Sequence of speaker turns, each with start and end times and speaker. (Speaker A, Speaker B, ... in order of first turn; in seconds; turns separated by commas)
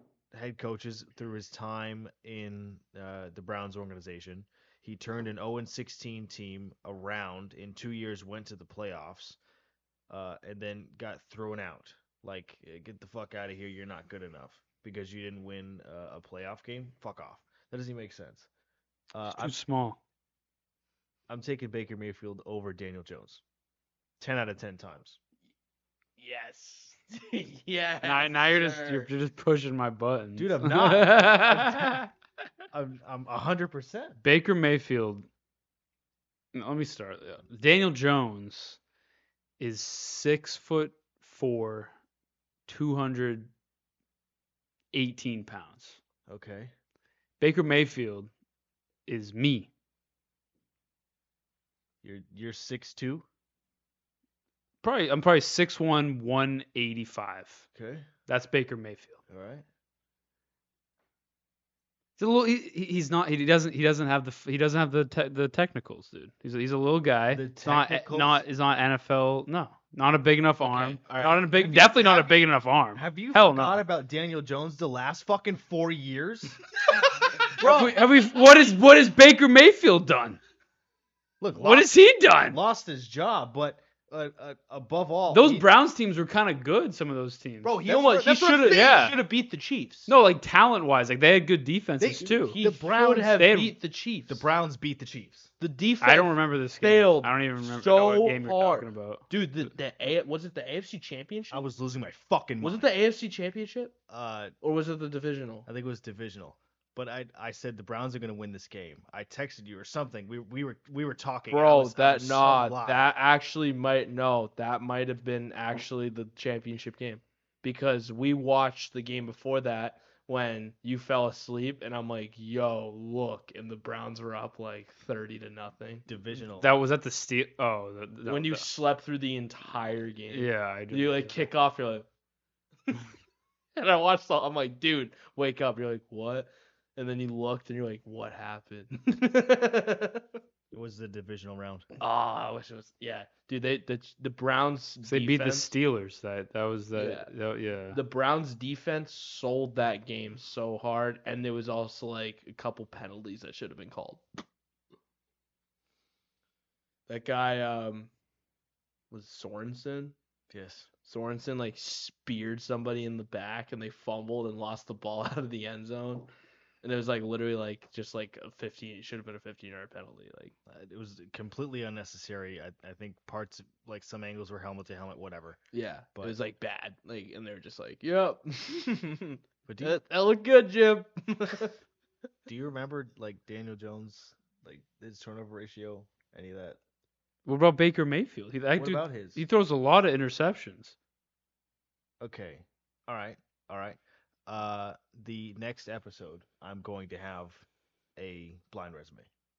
Speaker A: 0.3-9.4, Speaker A: 10.1-18.5, Speaker A: 19.1-19.6, Speaker B: 19.3-20.0, Speaker A: 21.3-23.4, Speaker A: 24.2-25.2, Speaker C: 26.2-29.1, Speaker B: 28.0-32.1, Speaker A: 30.4-32.0, Speaker A: 32.7-34.2, Speaker B: 34.2-35.3, Speaker B: 36.5-38.8, Speaker B: 39.6-41.9, Speaker B: 42.7-43.5, Speaker B: 44.9-46.0, Speaker A: 46.3-46.7, Speaker B: 47.4-48.3, Speaker B: 49.1-49.7, Speaker A: 52.0-53.3, Speaker B: 54.8-57.7, Speaker A: 57.7-58.1, Speaker B: 58.3-59.2, Speaker A: 59.3-59.6, Speaker B: 62.2-73.8, Speaker A: 67.3-68.4, Speaker C: 70.6-72.3, Speaker A: 73.0-76.7, Speaker B: 77.2-80.4, Speaker A: 77.6-78.0, Speaker A: 81.4-81.9, Speaker B: 81.5-82.6, Speaker A: 82.5-85.7, Speaker B: 85.3-87.8, Speaker A: 87.6-89.1, Speaker C: 87.8-90.1, Speaker B: 88.7-89.2, Speaker B: 90.1-92.6, Speaker A: 92.0-93.3, Speaker C: 92.3-94.4, Speaker B: 93.4-93.7, Speaker A: 94.3-95.5, Speaker C: 95.6-101.7, Speaker B: 96.0-99.7, Speaker A: 101.5-102.9, Speaker C: 102.6-104.0, Speaker A: 104.1-104.5, Speaker C: 104.6-105.7, Speaker A: 105.7-113.0, Speaker C: 111.5-126.1, Speaker A: 126.1-126.7, Speaker B: 126.6-128.7, Speaker C: 128.3-132.1, Speaker B: 130.3-131.5, Speaker C: 133.8-140.3, Speaker A: 140.7-141.9, Speaker C: 142.0-145.7, Speaker B: 145.1-148.0, Speaker C: 146.9-147.3, Speaker C: 147.9-154.2, Speaker C: 157.1-158.1, Speaker C: 159.1-160.2, Speaker A: 160.5-160.9, Speaker C: 161.1-166.3, Speaker C: 166.8-170.6, Speaker A: 170.7-175.6, Speaker C: 175.7-181.8, Speaker A: 179.7-180.0, Speaker A: 182.5-186.8, Speaker B: 187.4-191.0, Speaker A: 188.8-189.4, Speaker A: 192.2-199.3